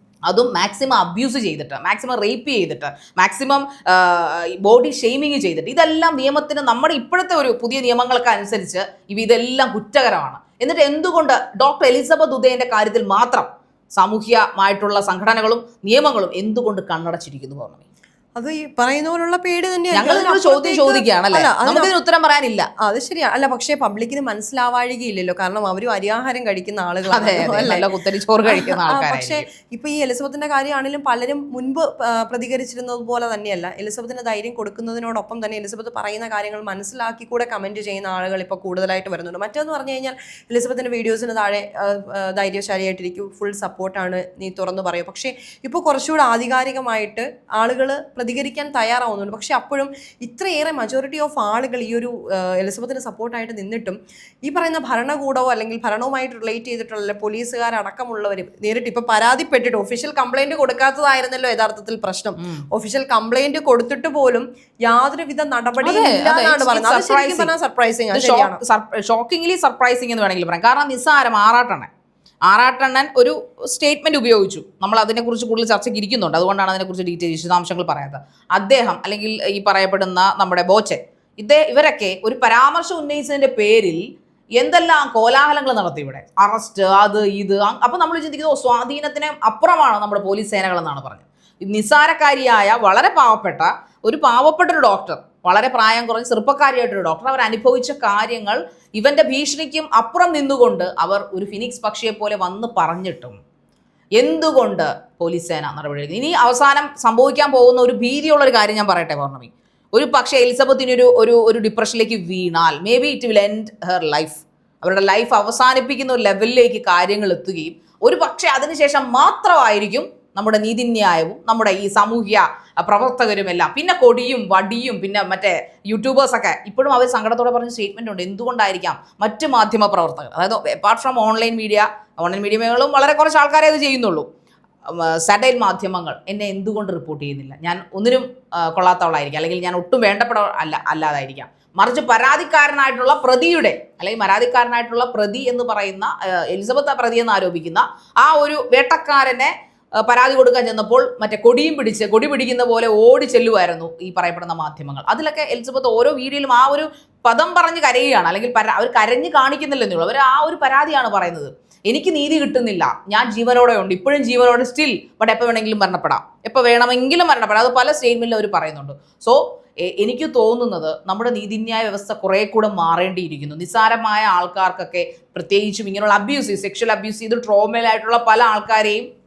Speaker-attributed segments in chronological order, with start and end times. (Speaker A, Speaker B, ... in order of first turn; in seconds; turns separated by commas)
Speaker A: 0.3-17.8, Speaker B: 18.4-21.9, Speaker A: 19.9-22.7, Speaker B: 22.8-27.9, Speaker A: 27.1-29.4, Speaker B: 28.5-68.6, Speaker A: 65.8-67.5, Speaker A: 68.1-71.9, Speaker A: 72.5-84.0, Speaker A: 84.6-103.4, Speaker A: 104.2-134.3, Speaker A: 134.9-179.1